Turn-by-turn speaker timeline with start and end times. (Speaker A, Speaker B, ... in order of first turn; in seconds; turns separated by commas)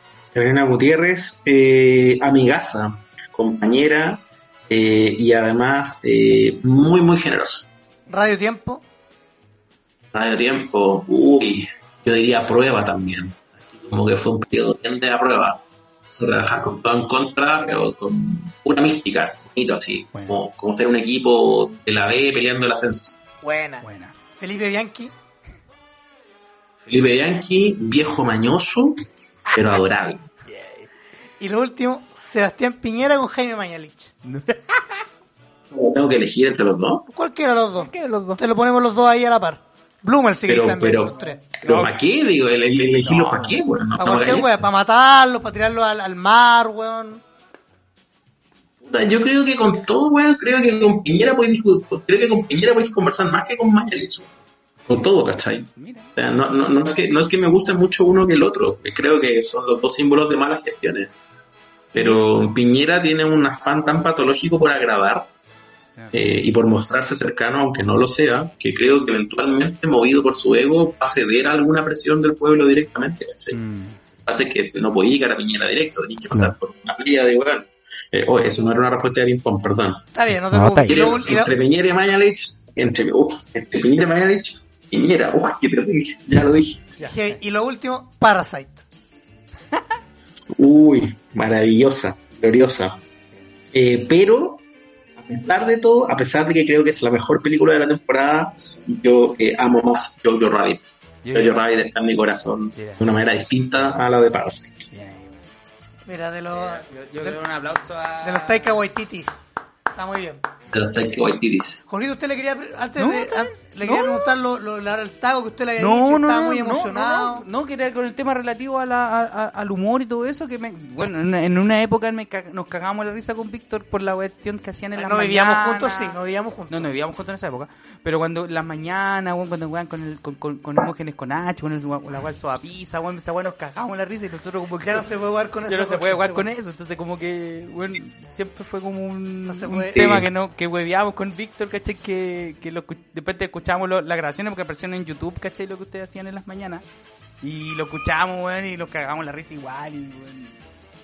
Speaker A: 0.3-7.7, Speaker B: 8.1-8.8, Speaker A: 10.1-23.2, Speaker C: 20.1-20.4, Speaker B: 23.4-25.1, Speaker C: 23.8-24.1, Speaker A: 26.8-30.3, Speaker C: 30.5-30.9, Speaker B: 31.4-34.1, Speaker C: 34.2-34.8, Speaker A: 35.7-37.1, Speaker B: 37.1-41.4, Speaker C: 37.8-38.4, Speaker A: 40.5-44.6, Speaker C: 41.6-41.9, Speaker C: 43.0-43.6, Speaker B: 44.0-47.2, Speaker A: 48.8-54.3, Speaker A: 54.9-61.1, Speaker C: 55.7-56.1, Speaker A: 61.9-65.3, Speaker A: 66.1-73.6, Speaker C: 73.5-74.0, Speaker A: 74.2-80.0, Speaker B: 80.1-81.5, Speaker C: 80.5-81.1, Speaker A: 80.8-86.8, Speaker C: 87.0-87.3, Speaker B: 87.0-88.8, Speaker A: 90.5-93.0, Speaker A: 93.7-94.6, Speaker A: 95.2-104.9, Speaker C: 101.2-101.6, Speaker C: 102.7-103.1, Speaker C: 104.9-105.5, Speaker B: 106.0-107.4, Speaker C: 106.5-108.8, Speaker B: 108.2-109.3, Speaker B: 109.9-110.4, Speaker A: 110.7-111.8, Speaker B: 111.9-117.5, Speaker C: 113.0-114.3, Speaker C: 115.8-126.2, Speaker B: 125.0-126.9, Speaker C: 126.7-135.1, Speaker B: 134.8-136.5, Speaker C: 135.7-146.8, Speaker B: 139.5-140.2, Speaker A: 139.9-140.3, Speaker C: 147.4-150.6